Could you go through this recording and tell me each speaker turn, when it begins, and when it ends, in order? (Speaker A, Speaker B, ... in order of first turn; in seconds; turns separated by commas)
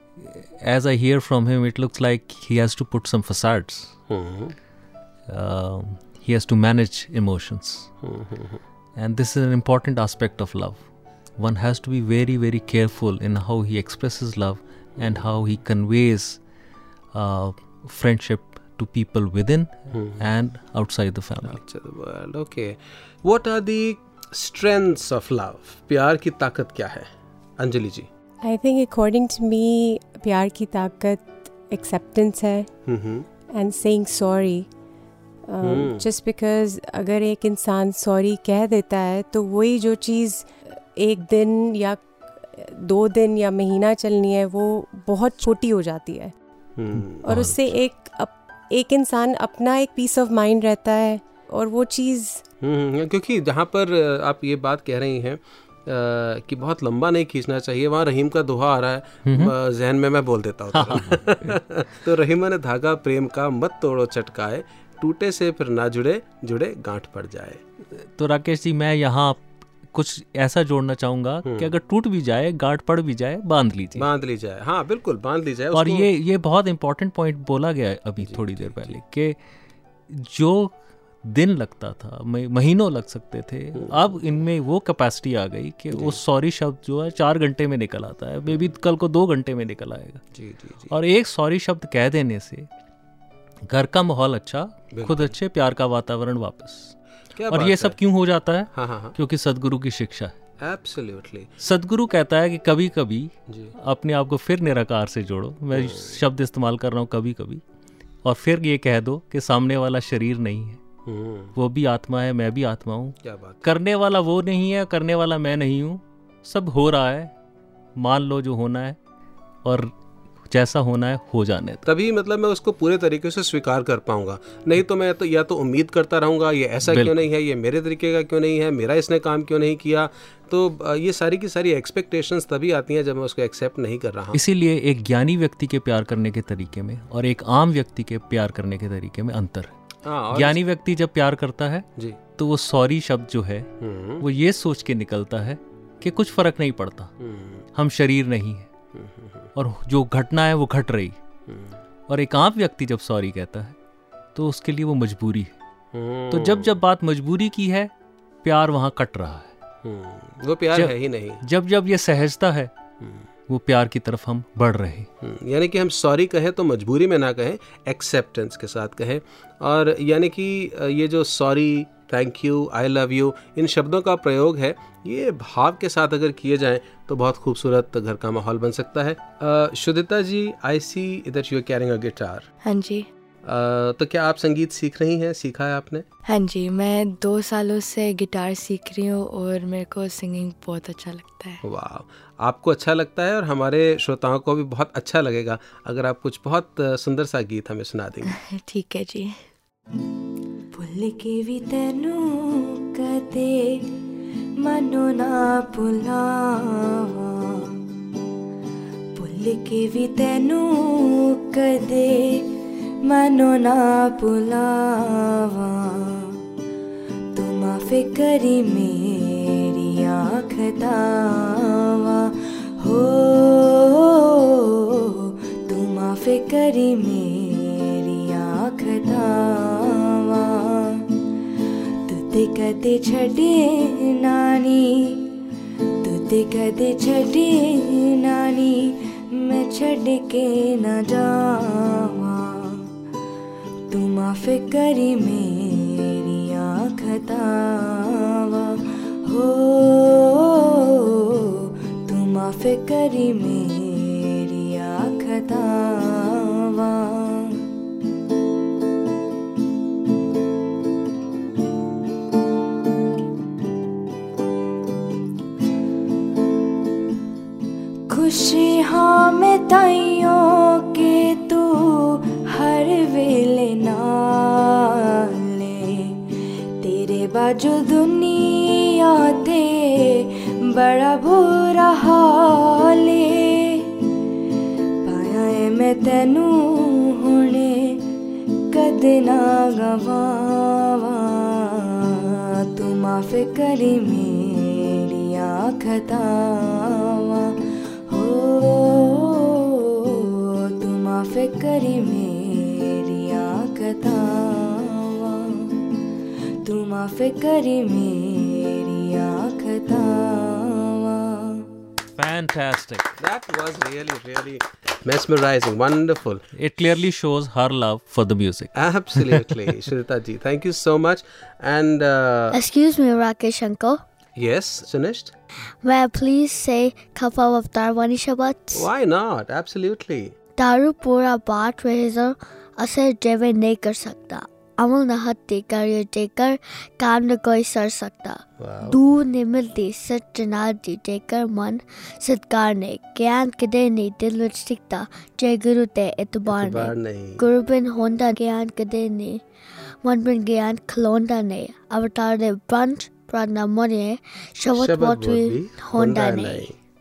Speaker A: 0.4-3.9, Speaker B: 4.1-4.6, Speaker A: 5.3-7.9, Speaker B: 8.0-8.6, Speaker A: 9.0-10.8, Speaker A: 11.4-16.4, Speaker A: 17.1-21.6, Speaker B: 19.9-20.3, Speaker B: 21.4-28.1, Speaker C: 28.4-32.7, Speaker B: 32.9-33.3, Speaker C: 33.5-34.7, Speaker C: 35.5-46.4, Speaker B: 35.6-36.1, Speaker B: 46.8-47.3, Speaker C: 47.2-52.4, Speaker A: 47.3-47.6, Speaker B: 52.6-67.6, Speaker A: 59.3-59.5, Speaker A: 60.7-61.6, Speaker A: 68.0-74.1, Speaker B: 71.5-71.7, Speaker B: 74.0-76.1, Speaker A: 75.7-79.4, Speaker B: 78.2-79.0, Speaker A: 80.1-90.2, Speaker B: 83.8-84.2, Speaker B: 85.9-86.2, Speaker B: 90.3-90.9, Speaker A: 90.9-92.7, Speaker A: 93.7-97.0, Speaker B: 95.0-95.3, Speaker B: 97.4-98.0, Speaker A: 97.5-100.3, Speaker B: 98.7-99.2, Speaker B: 100.6-101.5, Speaker A: 101.6-107.6, Speaker B: 105.7-106.2, Speaker A: 108.2-110.8, Speaker B: 111.1-111.5, Speaker A: 111.5-117.3, Speaker B: 113.2-113.6, Speaker A: 118.0-119.0, Speaker A: 119.7-119.9, Speaker A: 120.5-121.9, Speaker B: 121.9-134.4, Speaker A: 126.8-127.2, Speaker A: 134.3-139.7, Speaker B: 140.1-140.6, Speaker A: 140.3-141.9, Speaker A: 142.4-147.1, Speaker B: 143.8-144.2, Speaker B: 147.2-147.7, Speaker A: 147.8-148.7, Speaker B: 148.9-149.5, Speaker A: 149.6-151.2, Speaker B: 151.5-151.8, Speaker A: 152.1-153.8, Speaker A: 154.3-155.5, Speaker B: 155.9-156.8, Speaker A: 156.3-157.9, Speaker A: 158.4-159.5, Speaker B: 159.8-161.4, Speaker A: 160.8-162.7, Speaker B: 163.0-163.3, Speaker A: 163.5-165.1, Speaker B: 165.2-182.5, Speaker D: 182.6-183.1, Speaker B: 183.4-186.1, Speaker D: 186.3-191.6, Speaker B: 191.6-198.3, Speaker D: 198.3-199.4, Speaker D: 200.7-203.9, Speaker D: 204.6-207.8, Speaker D: 209.2-216.4, Speaker D: 217.3-231.1, Speaker D: 232.1-235.2, Speaker D: 236.0-242.9, Speaker D: 243.9-257.6, Speaker D: 268.1-276.3, Speaker D: 276.8-283.9, Speaker D: 285.0-288.0, Speaker D: 288.7-297.6, Speaker D: 298.1-305.7, Speaker D: 306.6-311.7, Speaker A: 312.2-313.2, Speaker B: 313.2-316.4, Speaker A: 316.6-319.5, Speaker B: 318.8-322.6, Speaker E: 322.5-324.0, Speaker B: 324.4-325.4, Speaker E: 325.8-328.9, Speaker B: 328.7-330.4, Speaker E: 330.6-349.4, Speaker B: 338.6-339.0, Speaker B: 346.5-347.4, Speaker E: 350.0-356.7, Speaker B: 354.8-356.8